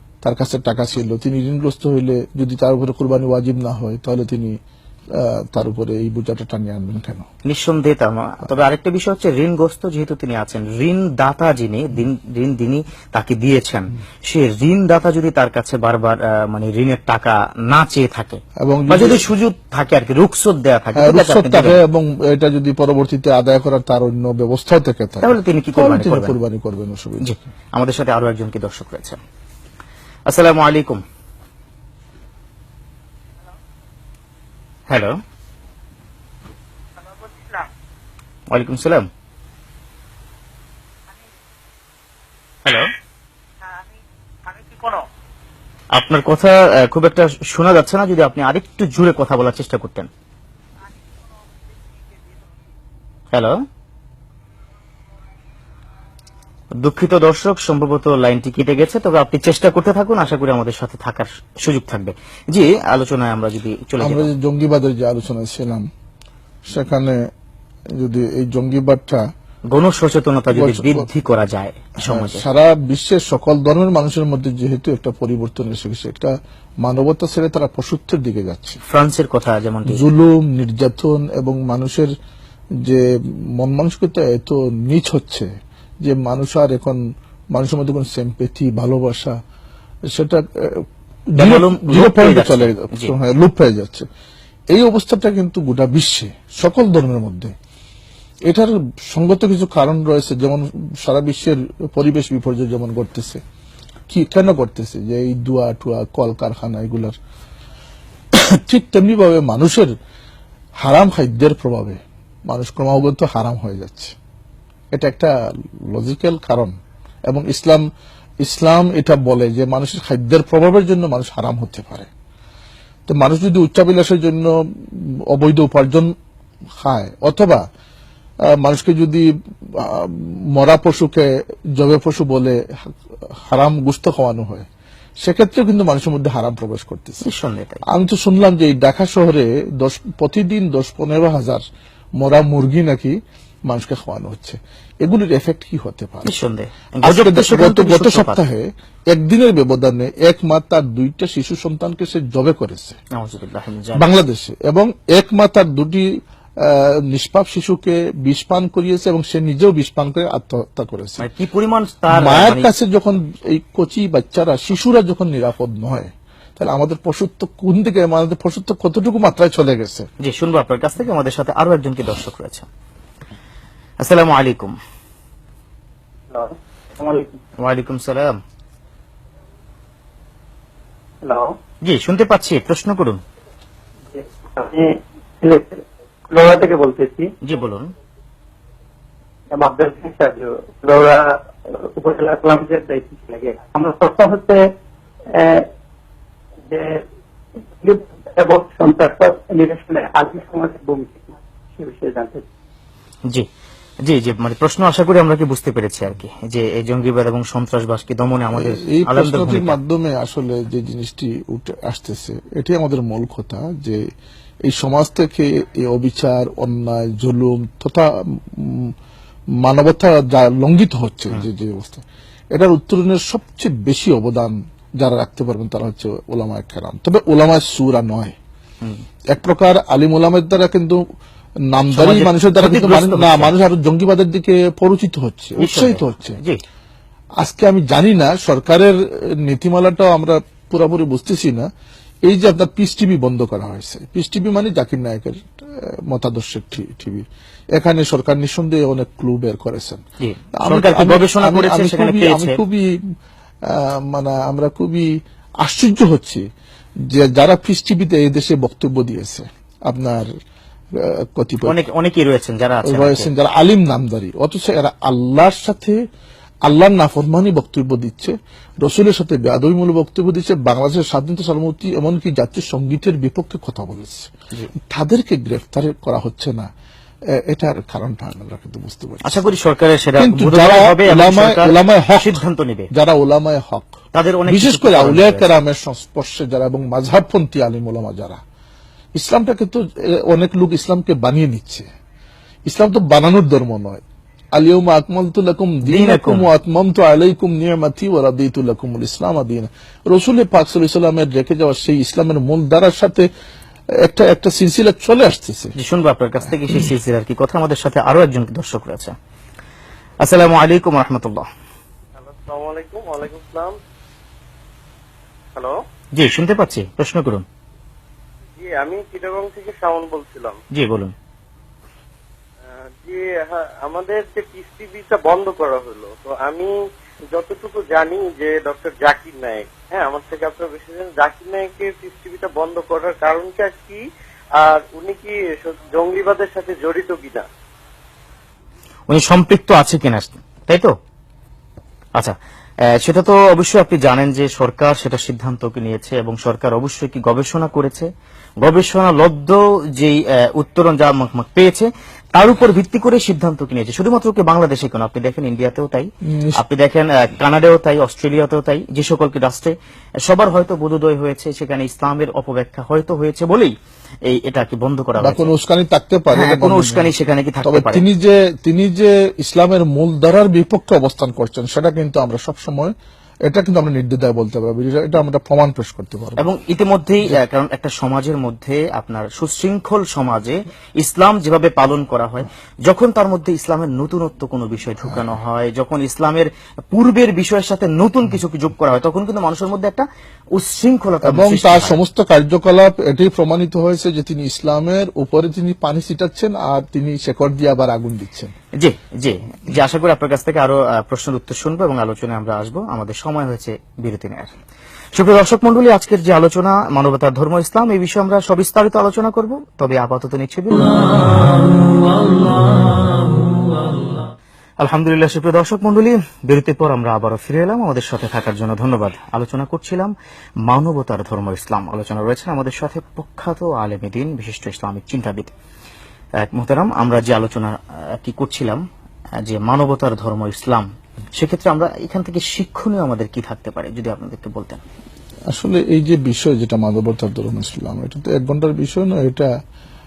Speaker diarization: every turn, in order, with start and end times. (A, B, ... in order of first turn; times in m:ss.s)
0:00.2-0:04.6 A
0:05.2-0:07.2 A
0:07.4-0:21.8 B
0:18.6-0:19.3 A
0:20.9-0:27.4 A
0:25.2-0:26.4 B
0:27.2-0:29.2 B
0:30.3-0:31.0 B
0:34.9-0:35.2 B
0:38.5-0:39.1 B
0:44.6-0:45.0 C
0:45.9-0:50.1 B
0:53.3-0:53.6 B
0:56.8-1:04.3 B
1:04.0-1:05.8 A
1:06.7-1:07.2 A
1:08.0-1:09.2 A
1:09.7-1:12.4 B
1:10.5-1:11.1 A
1:12.0-1:16.3 A
1:16.8-1:18.8 A
1:18.9-1:20.0 B
1:19.9-1:22.1 A
1:23.6-1:25.5 A
1:26.0-1:27.0 A
1:27.5-1:29.3 A
1:30.1-1:34.1 A
1:31.3-1:33.1 B
1:34.7-1:37.5 A
1:38.5-1:43.4 A
1:44.1-1:47.1 A
1:48.3-1:49.9 A
1:50.8-1:54.1 A
1:54.9-1:55.3 A
1:55.9-1:56.8 A
1:57.3-1:57.8 A
1:58.4-2:02.1 A
2:03.1-2:06.1 A
2:06.8-2:07.6 A
2:08.5-2:12.9 A
2:13.5-2:14.7 A
2:15.2-2:17.3 A
2:17.2-2:17.8 B
2:17.9-2:21.6 A
2:22.2-2:26.3 A
2:26.2-2:28.4 B
2:27.0-2:32.9 A
2:33.1-2:34.0 B
2:33.9-2:36.1 A
2:36.6-2:41.2 A
2:41.2-2:42.7 B
2:42.1-2:50.0 A
2:50.2-2:52.7 B
2:54.0-2:54.8 B
2:56.3-2:57.4 C
2:57.6-2:58.4 B
3:01.2-3:01.6 C
3:01.8-3:03.2 B
3:04.1-3:07.3 C
3:07.4-3:07.9 B
3:09.5-3:14.7 C
3:15.3-3:15.7 C
3:16.7-3:17.0 C
3:17.8-3:22.4 C
3:24.0-3:29.8 B
3:28.5-3:34.0 A
3:34.7-3:38.9 A
3:39.6-3:48.3 A
3:49.3-3:51.0 A
3:51.7-3:56.4 A
3:51.9-3:53.5 B
3:55.6-3:56.6 B
3:57.4-4:01.7 A
4:02.2-4:07.2 A
4:07.8-4:10.0 A
4:10.2-4:12.6 B
4:10.6-4:12.9 A
4:13.7-4:15.1 A
4:15.6-4:16.4 A
4:17.1-4:20.3 A
4:20.9-4:21.8 A
4:21.6-4:23.3 B
4:22.8-4:26.0 A
4:26.7-4:34.3 A
4:34.9-4:36.7 A
4:37.4-4:39.4 A
4:39.2-4:42.9 B
4:40.2-4:42.4 A
4:42.9-4:48.4 A
4:44.1-4:45.5 B
4:49.2-4:51.9 A
4:52.7-4:54.0 A
4:54.6-5:03.3 A
4:55.8-4:56.5 B
5:04.0-5:05.7 A
5:05.8-5:09.1 B
5:10.2-5:11.5 B
5:12.2-5:13.7 D
5:16.2-5:17.4 B
5:18.6-5:20.6 D
5:20.7-5:21.1 B
5:23.0-5:26.7 D
5:27.3-5:34.0 D
5:34.6-5:37.5 D
5:39.1-5:40.9 B
5:42.9-5:48.1 B
5:48.6-6:03.7 B
5:56.2-5:56.6 A
6:04.2-6:05.5 B
6:05.2-6:07.1 A
6:06.3-6:08.0 B
6:07.6-6:12.9 A
6:13.4-6:16.4 A
6:16.4-6:32.0 B
6:31.2-6:38.5 A
6:38.8-6:44.5 B
6:45.2-6:51.7 B
6:54.8-7:00.1 B
7:00.7-7:05.5 B
7:06.4-7:08.8 B
7:09.4-7:14.8 B
7:15.5-7:19.5 A